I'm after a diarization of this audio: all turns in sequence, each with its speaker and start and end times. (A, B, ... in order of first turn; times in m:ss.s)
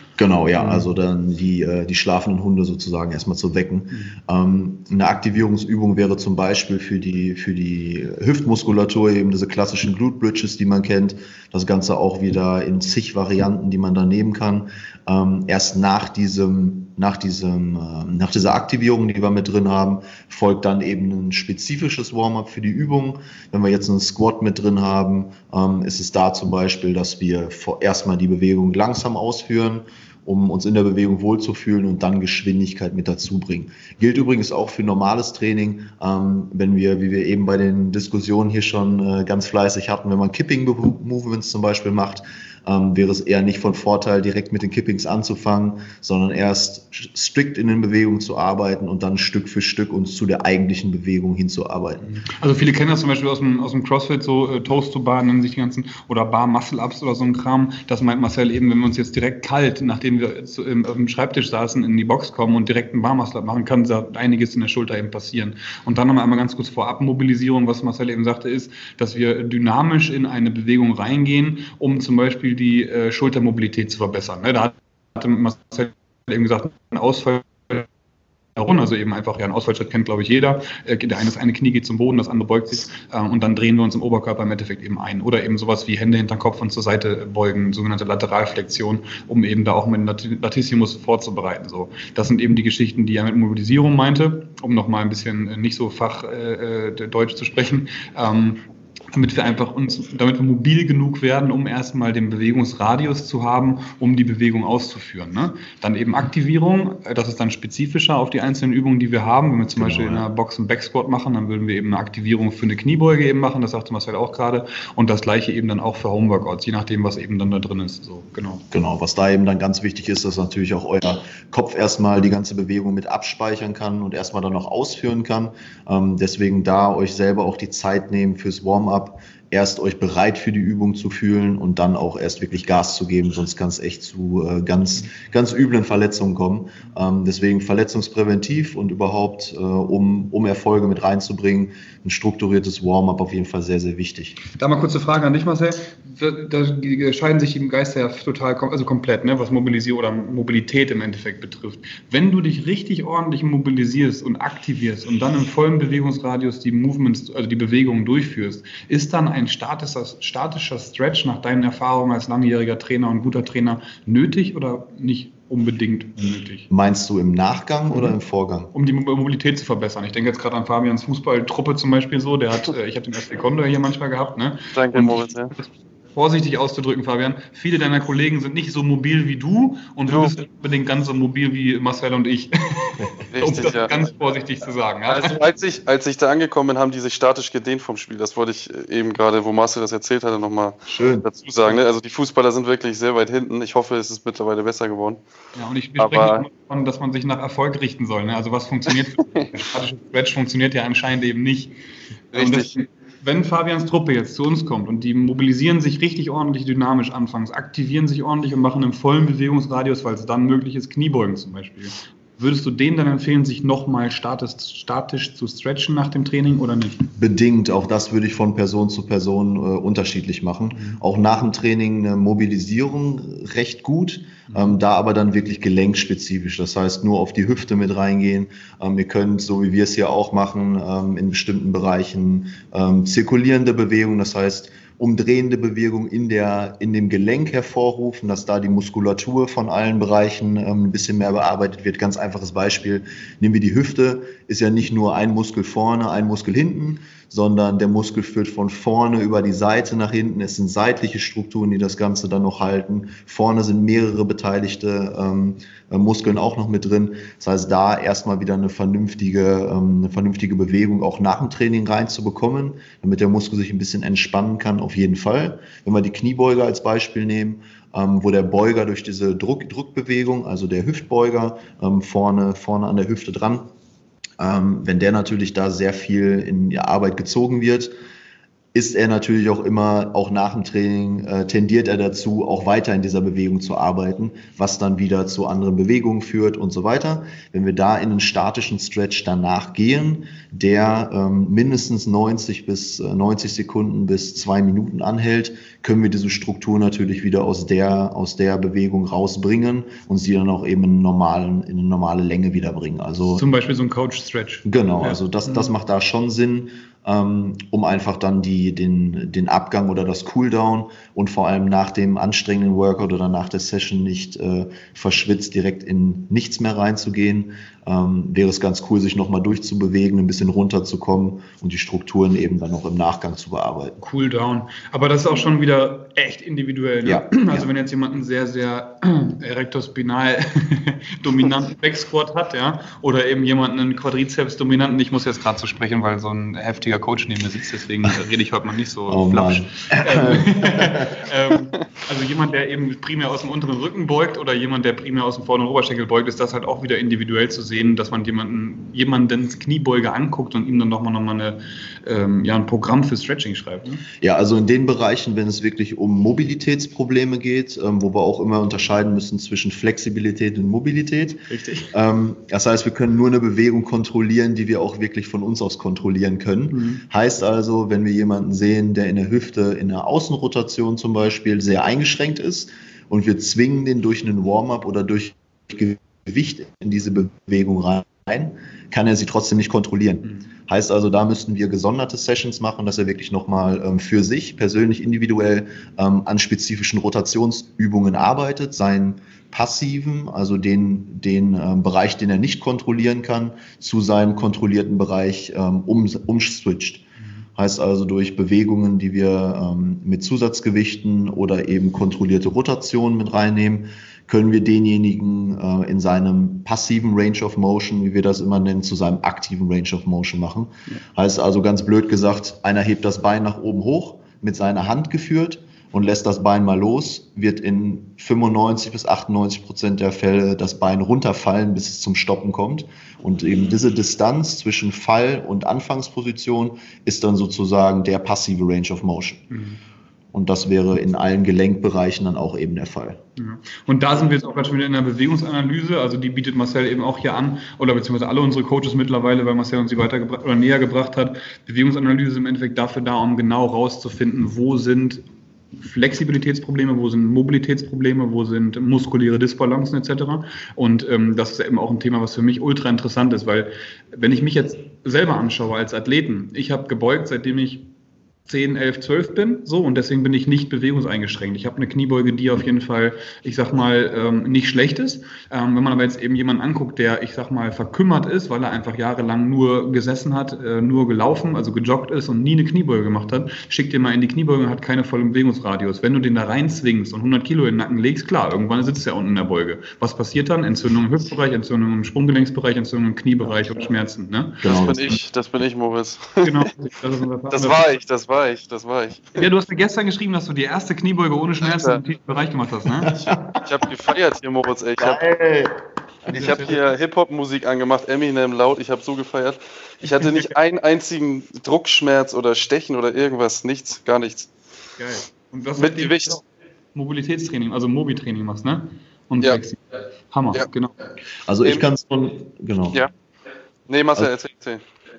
0:00.2-0:52.0 A
0:00.6-0:00.9 B
0:52.0-1:17.9 B
1:18.6-1:58.6 B
1:49.8-1:50.2 A
1:58.7-2:24.4 A
2:24.5-2:46.7 B
2:46.7-2:48.7 A
2:47.9-2:48.2 B
2:48.7-3:05.4 B
2:54.7-2:55.5 C
3:00.1-3:00.4 C
3:03.3-3:04.0 C
3:05.1-3:15.2 C
3:10.9-3:11.3 A
3:15.5-3:21.7 B
3:16.0-3:16.4 C
3:18.9-3:19.4 C
3:22.3-3:37.1 B
3:22.3-3:22.7 C
3:37.2-4:33.6 A
3:40.7-3:41.0 B
3:44.5-3:44.8 B
4:34.4-4:37.9 A
4:38.7-5:03.4 A
5:03.3-5:05.7 B
5:04.6-5:24.0 A
5:24.0-5:54.0 B
5:27.0-5:27.7 A
5:39.1-5:41.2 A
5:54.2-6:37.0 A
6:01.5-6:01.9 B
6:06.7-6:07.0 B
6:37.6-7:09.4 A
7:09.5-7:09.8 B
7:10.3-7:13.2 A
7:13.4-7:25.2 B
7:25.8-7:37.8 B
7:38.5-8:04.7 B
8:04.6-8:05.2 A
8:04.6-8:06.5 C
8:06.4-8:07.9 B
8:07.5-8:09.4 C
8:09.4-8:13.2 B
8:11.6-8:12.0 C
8:13.0-8:13.6 A
8:13.6-8:15.2 C
8:15.0-8:15.7 A
8:16.2-8:16.7 A
8:16.3-8:16.8 B
8:16.3-8:24.5 C
8:20.1-8:20.5 B
8:25.0-8:26.4 B
8:25.8-8:26.4 C
8:26.9-8:30.9 B
8:31.5-8:33.0 A
8:33.9-8:34.8 C